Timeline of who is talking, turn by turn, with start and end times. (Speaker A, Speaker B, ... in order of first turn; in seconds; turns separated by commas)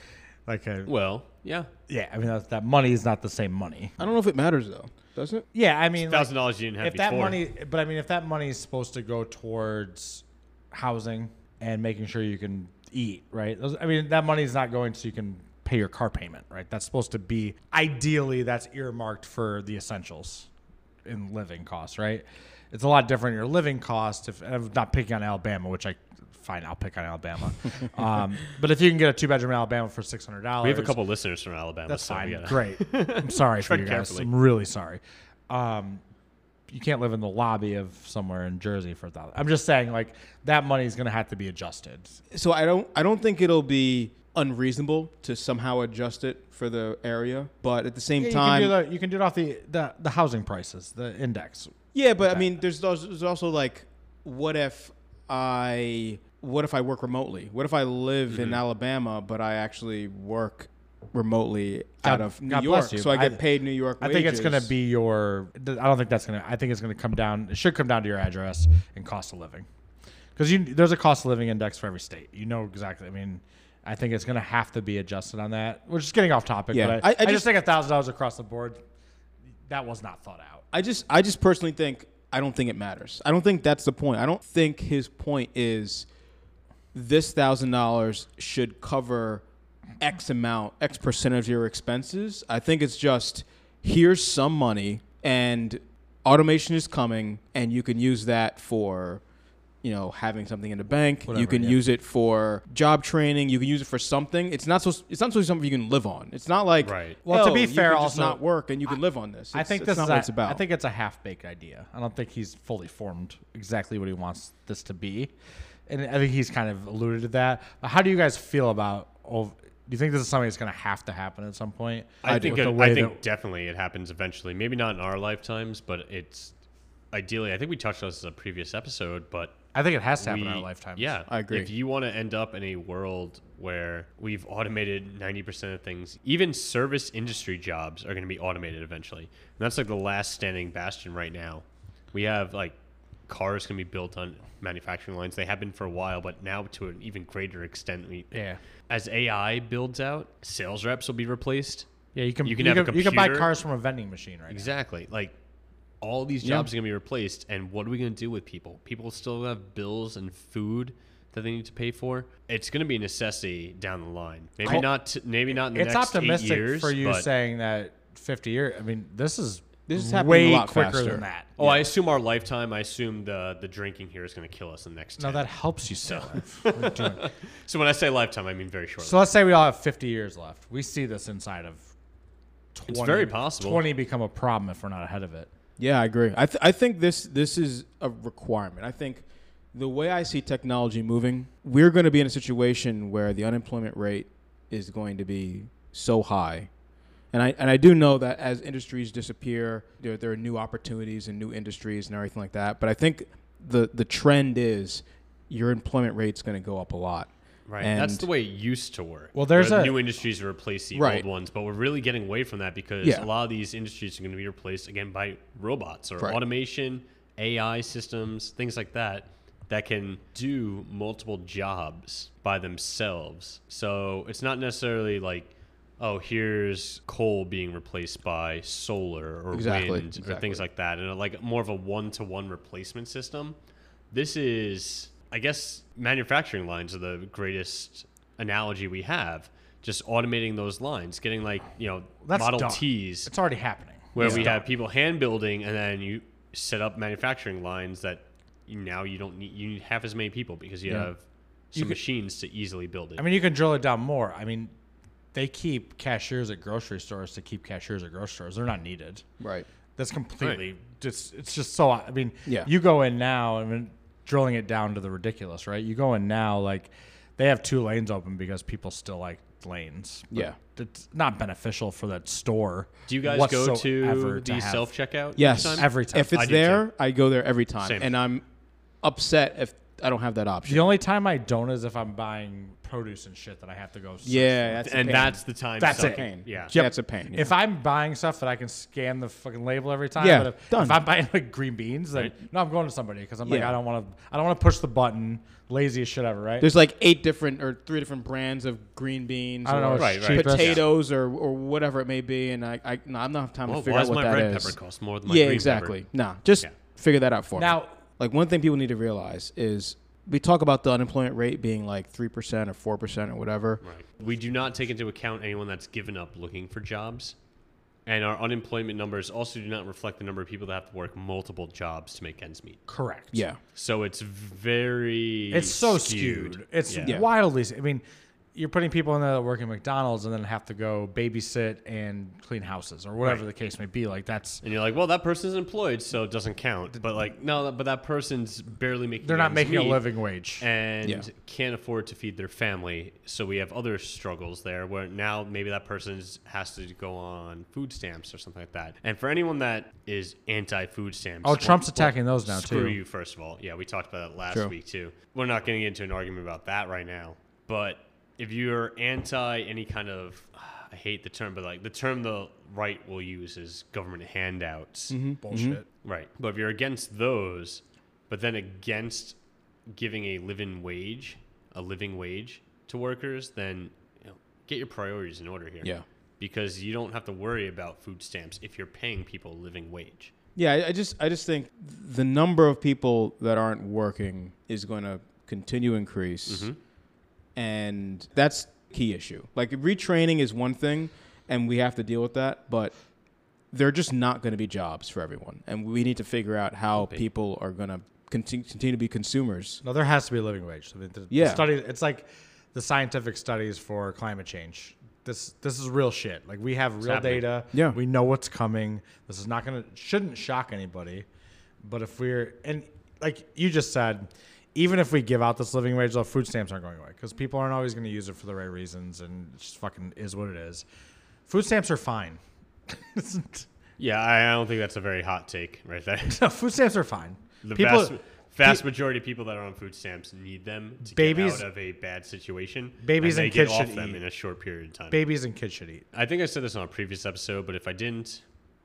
Speaker A: 0.5-0.9, Speaker B: 0.8-1.7, Speaker A: 1.9-3.9, Speaker C: 4.0-5.5, Speaker A: 5.5-20.5, Speaker B: 6.0-7.4, Speaker A: 21.0-30.9, Speaker B: 30.6-34.3, Speaker A: 31.9-36.0, Speaker A: 36.7-42.2, Speaker C: 42.3-48.7, Speaker A: 48.2-52.5, Speaker C: 51.9-64.7, Speaker B: 58.3-58.6, Speaker A: 62.0-63.4, Speaker A: 64.0-69.7, Speaker A: 70.3-78.8, Speaker C: 76.7-77.5, Speaker A: 79.7-80.6, Speaker C: 80.7-86.1, Speaker C: 86.9-89.4, Speaker C: 90.0-99.2, Speaker C: 99.8-110.6, Speaker A: 101.3-101.8, Speaker B: 106.8-107.2, Speaker A: 107.2-108.4, Speaker A: 109.5-115.3, Speaker A: 115.9-123.2, Speaker B: 122.2-126.5, Speaker C: 122.3-122.6, Speaker B: 127.1-129.6, Speaker A: 129.7-131.1, Speaker B: 130.2-142.8, Speaker C: 131.3-131.7, Speaker B: 143.3-151.9, Speaker A: 148.3-148.6, Speaker A: 152.1-154.7, Speaker B: 152.4-153.5, Speaker B: 154.5-155.3, Speaker B: 156.0-167.3, Speaker C: 156.4-156.7, Speaker A: 165.5-171.6, Speaker C: 169.9-171.8, Speaker B: 171.6-175.5, Speaker A: 175.2-177.2, Speaker B: 176.1-179.3, Speaker A: 179.0-181.8, Speaker A: 182.7-185.5, Speaker B: 182.9-183.8, Speaker C: 185.8-196.7, Speaker C: 197.3-208.3, Speaker B: 207.7-233.6, Speaker A: 209.3-209.9, Speaker C: 210.9-211.2, Speaker C: 213.0-213.3, Speaker C: 229.5-230.6, Speaker B: 234.1-243.3, Speaker A: 242.2-244.7, Speaker B: 244.1-253.2, Speaker C: 244.2-244.5, Speaker A: 253.2-254.7, Speaker A: 255.3-259.2, Speaker C: 259.4-259.7, Speaker A: 260.0-274.9, Speaker B: 273.1-276.9, Speaker C: 275.4-278.4, Speaker A: 275.6-276.3, Speaker B: 277.8-278.1, Speaker C: 279.0-280.9, Speaker A: 280.7-284.9, Speaker C: 284.2-287.5, Speaker B: 284.8-286.8, Speaker A: 285.8-296.7, Speaker C: 290.2-291.0, Speaker C: 293.4-293.8, Speaker C: 296.6-313.8, Speaker A: 299.6-300.8, Speaker B: 299.9-300.8, Speaker B: 303.7-306.0, Speaker A: 307.6-308.0, Speaker B: 313.8-317.4, Speaker B: 318.1-322.8, Speaker A: 322.9-323.4, Speaker C: 323.3-323.6, Speaker B: 323.7-327.2, Speaker A: 325.5-328.0, Speaker C: 327.0-327.3, Speaker A: 328.5-334.6, Speaker B: 334.6-340.0, Speaker A: 339.2-340.6, Speaker B: 340.6-365.2, Speaker A: 351.4-353.0, Speaker C: 365.1-365.8, Speaker A: 365.4-365.9, Speaker B: 366.0-369.4, Speaker B: 369.9-380.3, Speaker C: 380.6-386.7, Speaker B: 386.5-386.8, Speaker C: 387.6-392.9, Speaker C: 393.7-399.8, Speaker B: 396.9-397.2, Speaker A: 399.8-411.2, Speaker C: 401.3-401.7, Speaker B: 407.0-407.4, Speaker C: 407.7-408.0, Speaker A: 411.8-420.8, Speaker A: 421.5-423.6, Speaker B: 424.0-426.4, Speaker A: 426.3-428.8, Speaker B: 427.6-435.2, Speaker A: 431.0-431.7, Speaker A: 433.0-434.2, Speaker A: 435.1-436.0, Speaker B: 436.1-438.4